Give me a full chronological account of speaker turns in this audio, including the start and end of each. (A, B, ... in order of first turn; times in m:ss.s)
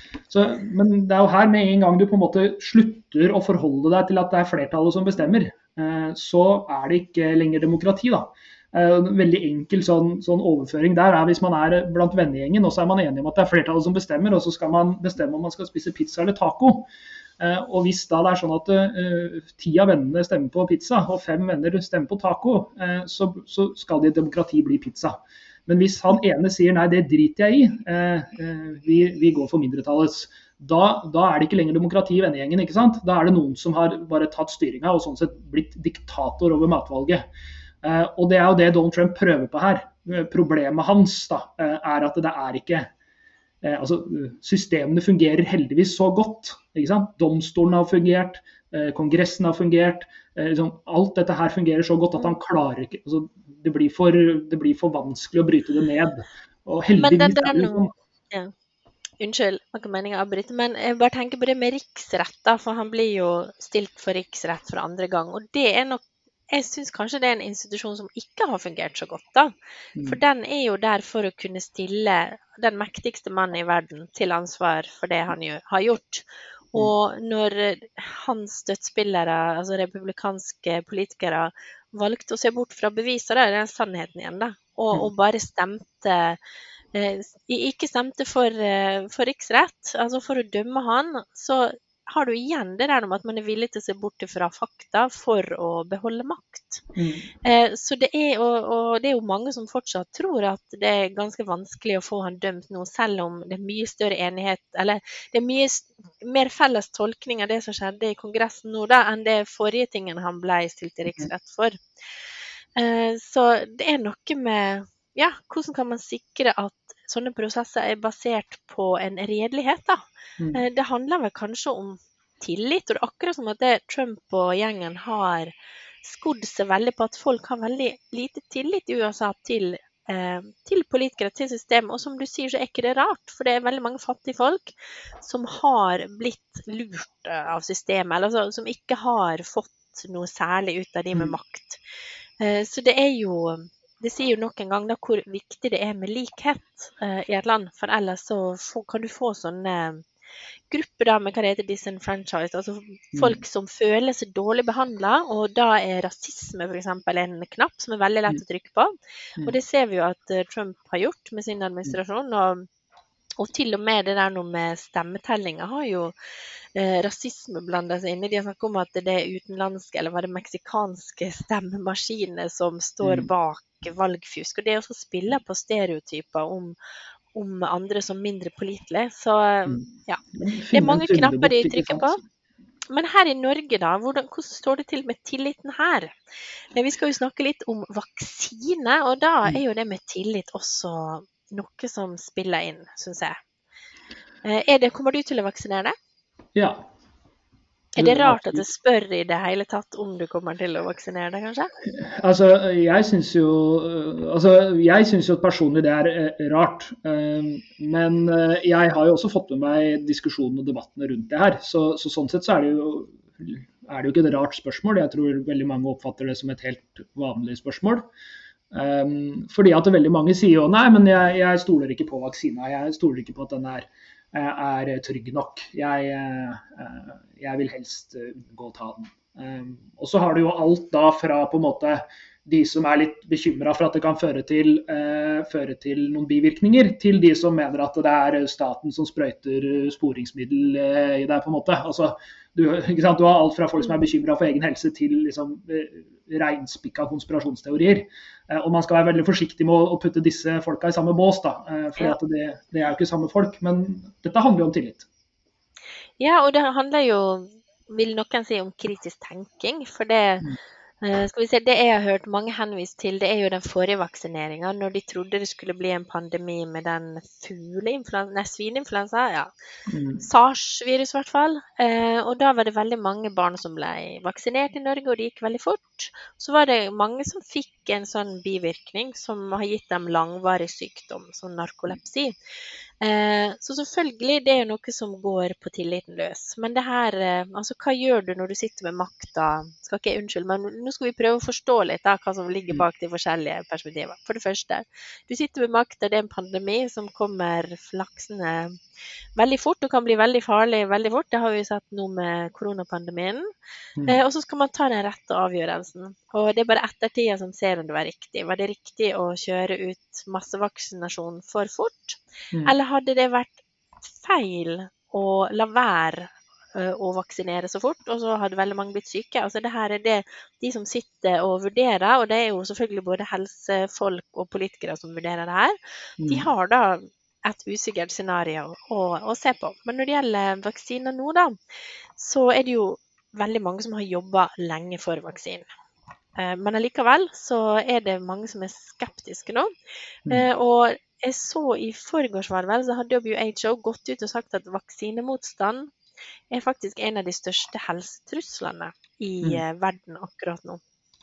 0:00.3-0:37.2 A
0:37.8-0:42.9 A
0:43.6-0:57.9 A
0:57.0-0:58.5 B
0:59.2-1:26.4 B
1:09.9-1:10.2 A
1:26.9-1:36.8 B
1:36.9-1:37.3 A
1:37.4-1:51.8 B
1:52.8-2:21.8 B
2:22.4-2:30.1 B
2:30.7-2:42.7 B
2:33.1-2:33.4 A
2:43.4-2:46.1 B
2:46.7-2:56.8 B
2:53.0-2:53.3 A
2:57.3-3:02.2 B
2:59.7-3:02.2 A
3:02.9-3:06.1 B
3:06.7-3:13.4 B
3:14.4-3:15.9 B
3:16.5-3:16.8 A
3:18.0-3:21.7 B
3:18.0-3:18.6 A
3:22.0-3:38.0 A
3:38.7-4:15.0 A
4:16.2-4:20.5 B
4:21.0-4:29.5 B
4:29.9-4:30.2 A
4:30.2-4:42.3 B
4:43.0-4:58.8 B
4:59.4-5:03.5 B
5:04.0-5:31.6 B
5:26.2-5:26.5 A
5:32.2-5:35.7 B
5:36.4-5:39.7 B
5:40.3-5:45.9 B
5:46.5-5:50.8 B